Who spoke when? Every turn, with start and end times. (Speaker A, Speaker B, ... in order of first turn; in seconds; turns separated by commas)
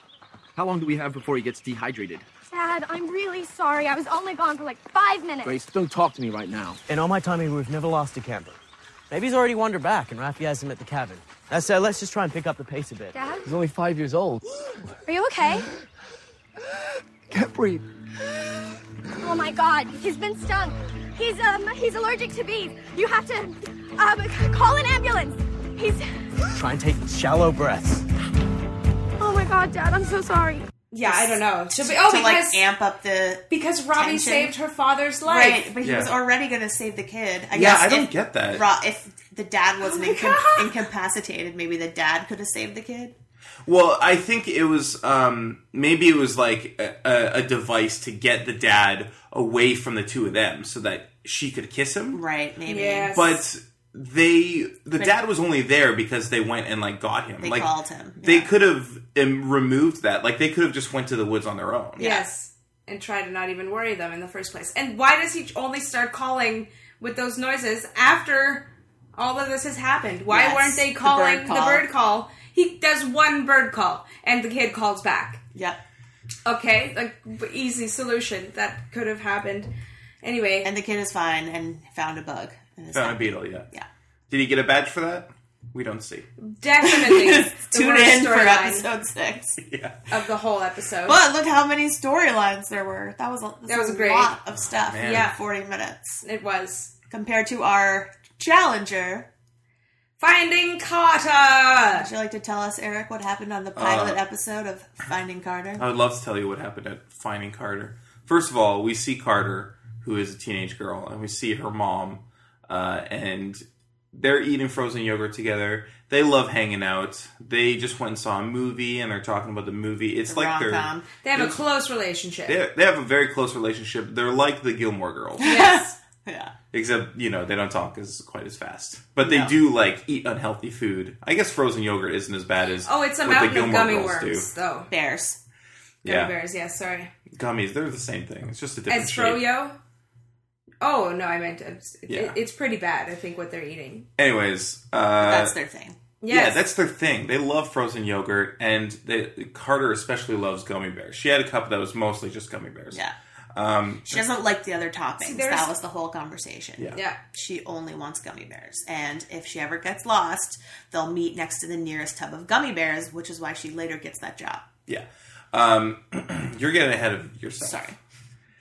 Speaker A: 0.6-2.2, Speaker B: 2.5-5.6, Speaker A: 5.5-6.8, Speaker C: 6.9-8.6, Speaker C: 9.1-13.1, Speaker B: 13.1-13.5, Speaker A: 13.5-14.4, Speaker B: 15.0-15.7, Speaker A: 17.3-17.8, Speaker B: 19.2-26.1, Speaker C: 26.5-28.0, Speaker B: 29.2-30.7, Speaker D: 30.9-32.6, Speaker E: 31.0-34.5, Speaker D: 33.5-35.7, Speaker E: 35.2-43.1, Speaker F: 35.8-36.1, Speaker F: 37.5-38.7, Speaker D: 39.8-40.7, Speaker F: 43.6-52.2, Speaker E: 52.1-53.1, Speaker D: 52.7-53.4, Speaker F: 53.1-57.7, Speaker E: 57.4-58.5, Speaker F: 58.2-62.0, Speaker E: 62.0-62.2, Speaker D: 62.0-75.4, Speaker E: 70.3-71.8, Speaker E: 75.5-75.8, Speaker D: 76.5-80.7, Speaker E: 80.6-83.8, Speaker F: 82.9-83.7, Speaker F: 84.3-86.3, Speaker D: 86.4-88.9, Speaker E: 86.8-89.6, Speaker F: 89.6-90.0, Speaker D: 90.1-91.2, Speaker E: 91.0-96.2, Speaker D: 93.7-94.3, Speaker F: 94.7-95.3, Speaker D: 95.0-95.4, Speaker D: 96.2-96.9, Speaker E: 97.1-99.3, Speaker D: 100.2-102.1, Speaker E: 101.9-105.8, Speaker F: 103.8-104.2, Speaker F: 105.8-121.6, Speaker E: 120.3-121.0, Speaker D: 121.2-122.6, Speaker F: 122.5-125.5, Speaker E: 125.4-126.5, Speaker D: 125.4-125.9, Speaker F: 126.7-134.5, Speaker E: 129.2-129.5, Speaker D: 132.8-134.9, Speaker E: 134.9-135.4, Speaker F: 136.0-136.3, Speaker D: 136.0-137.1, Speaker F: 137.3-139.4, Speaker D: 138.9-139.7, Speaker D: 140.8-144.1, Speaker F: 142.1-142.4, Speaker F: 144.2-145.5, Speaker E: 145.2-146.0, Speaker D: 146.2-146.6, Speaker F: 146.3-153.0, Speaker F: 153.5-154.2, Speaker E: 154.1-164.7, Speaker D: 155.2-155.7, Speaker F: 164.9-167.9, Speaker E: 167.6-167.9